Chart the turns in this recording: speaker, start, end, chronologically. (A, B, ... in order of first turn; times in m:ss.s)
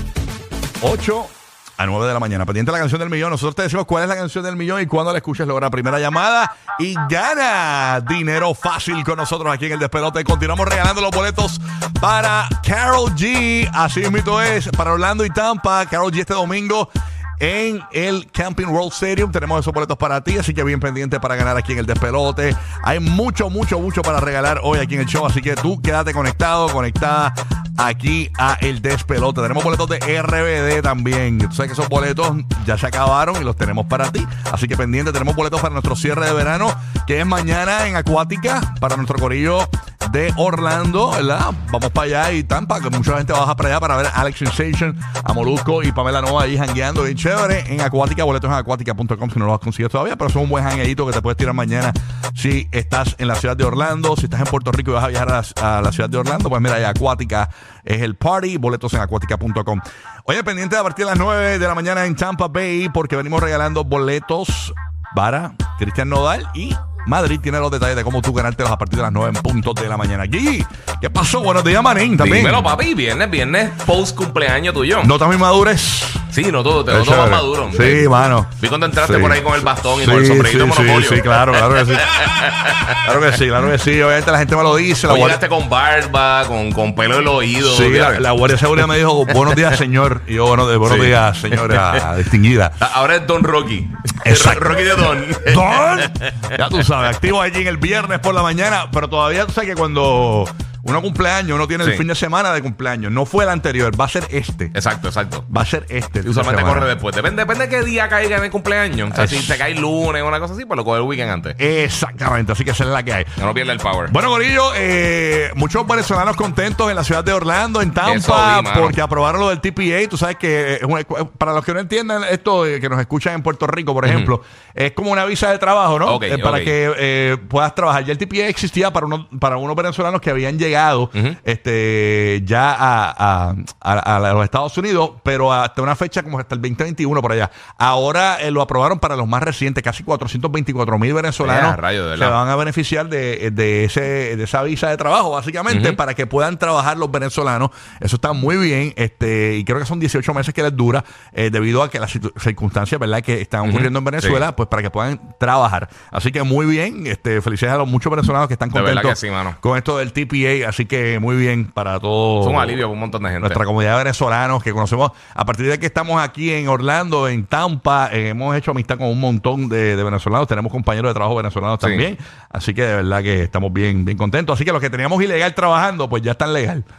0:00.8-1:12.7 A
1:12.2-1:15.1 B
1:15.0-1:16.2 A
1:16.3-1:23.0 B
1:16.9-1:22.2 A
1:23.0-1:25.4 A
1:25.1-1:28.3 B
1:27.6-1:32.8 A
1:30.8-1:32.0 B
1:32.8-1:36.3 B
1:34.2-1:44.7 A
1:44.7-1:45.4 B
1:45.5-1:46.9 A
1:46.2-1:51.6 B
1:49.1-1:49.6 A
1:51.6-1:53.3 A
1:53.4-1:54.1 B
1:54.1-2:42.8 A
1:58.0-1:59.0 B
2:04.0-2:04.3 B
2:06.0-2:06.7 B
2:21.4-2:22.4 B
2:25.7-2:26.0 B
2:33.6-2:34.4 B
2:38.7-2:39.6 B
2:42.4-2:43.6 B
2:43.4-2:56.8 A
2:51.8-2:52.0 B